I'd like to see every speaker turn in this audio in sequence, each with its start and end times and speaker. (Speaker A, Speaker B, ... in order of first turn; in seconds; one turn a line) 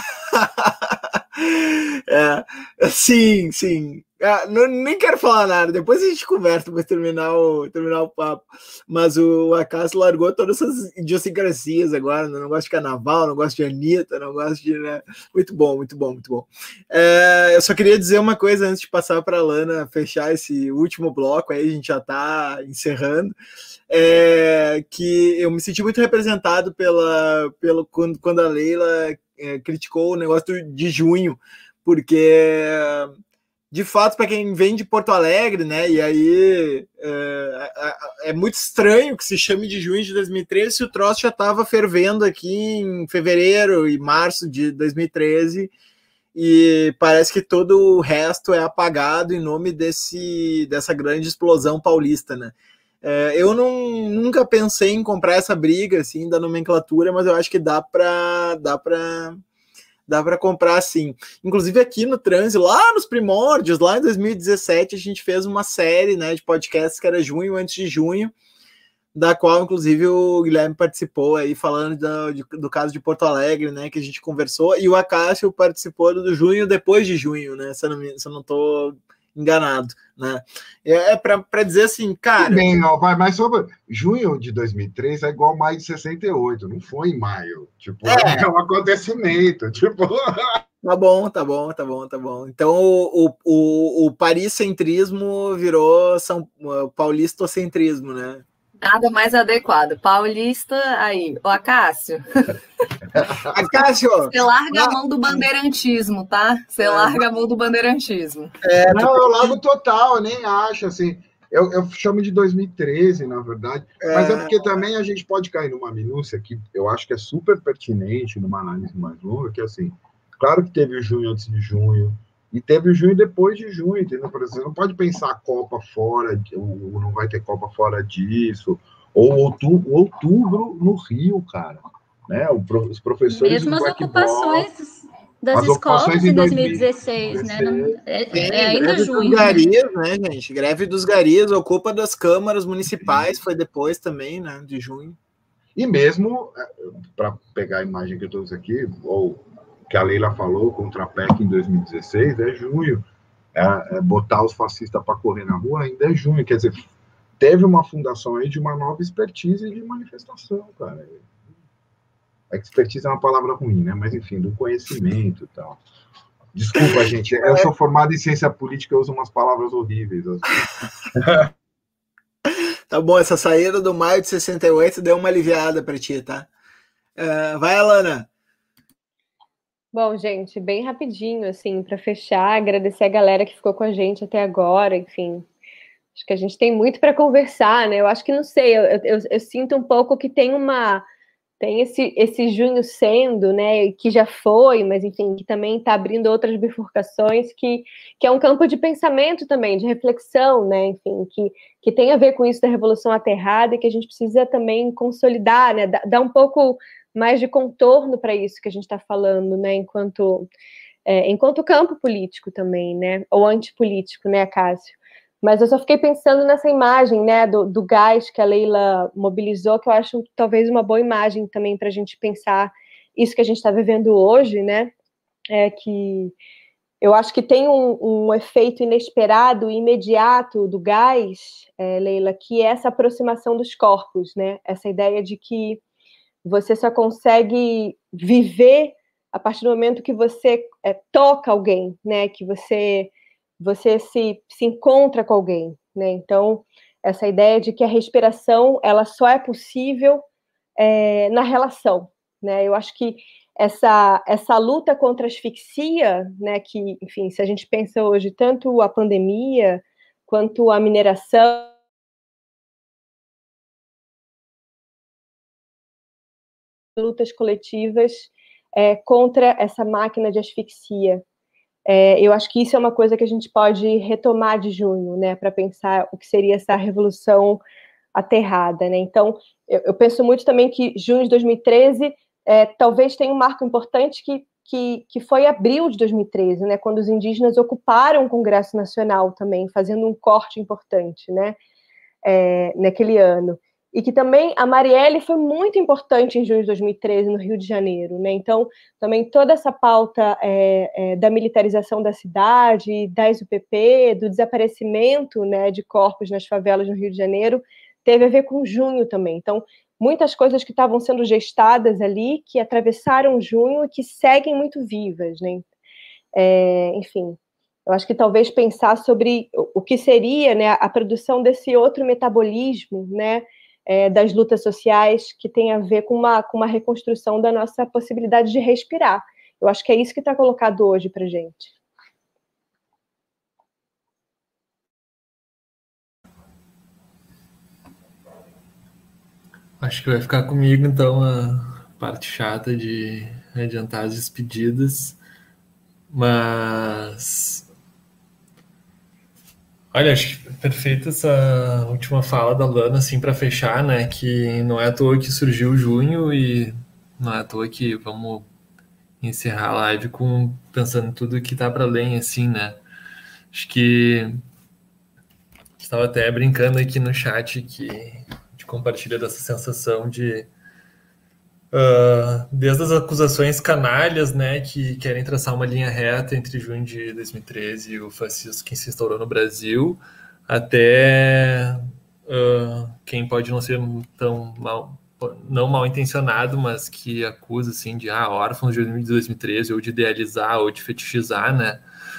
Speaker A: 0.3-23.3
Speaker A: 23.9-33.1
Speaker A: 33.7-45.7
Speaker A: 46.4-59.4
Speaker A: 60.1-68.3
Speaker A: 69.2-82.8
Speaker B: 82.4-90.6
Speaker A: 88.1-88.5
Speaker A: 90.8-98.4
Speaker C: 98.8-102.5
Speaker A: 103.5-104.9
Speaker C: 104.3-108.5
Speaker A: 106.9-107.2
Speaker A: 108.6-109.6
Speaker B: 108.9-134.7
Speaker A: 114.0-114.6
Speaker D: 133.3-139.7
Speaker B: 135.5-138.0
Speaker A: 138.3-145.2
Speaker B: 145.8-156.8
Speaker B: 157.4-161.2
Speaker B: 162.5-165.8
Speaker B: 166.5-170.6
Speaker A: 166.8-167.7
Speaker B: 171.1-171.4
Speaker A: 172.9-176.5
Speaker A: 177.2-178.3
Speaker E: 179.9-185.5
Speaker E: 186.2-191.0
Speaker E: 191.6-210.5
Speaker E: 211.1-224.9
Speaker E: 225.5-226.3
Speaker E: 227.0-235.8
Speaker E: 236.4-250.2
Speaker E: 250.8-261.7
Speaker E: 267.0-271.2
Speaker E: 271.9-277.6
Speaker E: 278.1-291.6
Speaker E: 292.2-315.6
Speaker E: 316.4-331.7
Speaker F: 339.8-345.2
Speaker F: 346.1-347.7
Speaker F: 349.9-358.5
Speaker F: 359.2-362.8
Speaker F: 363.5-364.4
Speaker F: 365.8-370.5
Speaker F: 371.7-391.8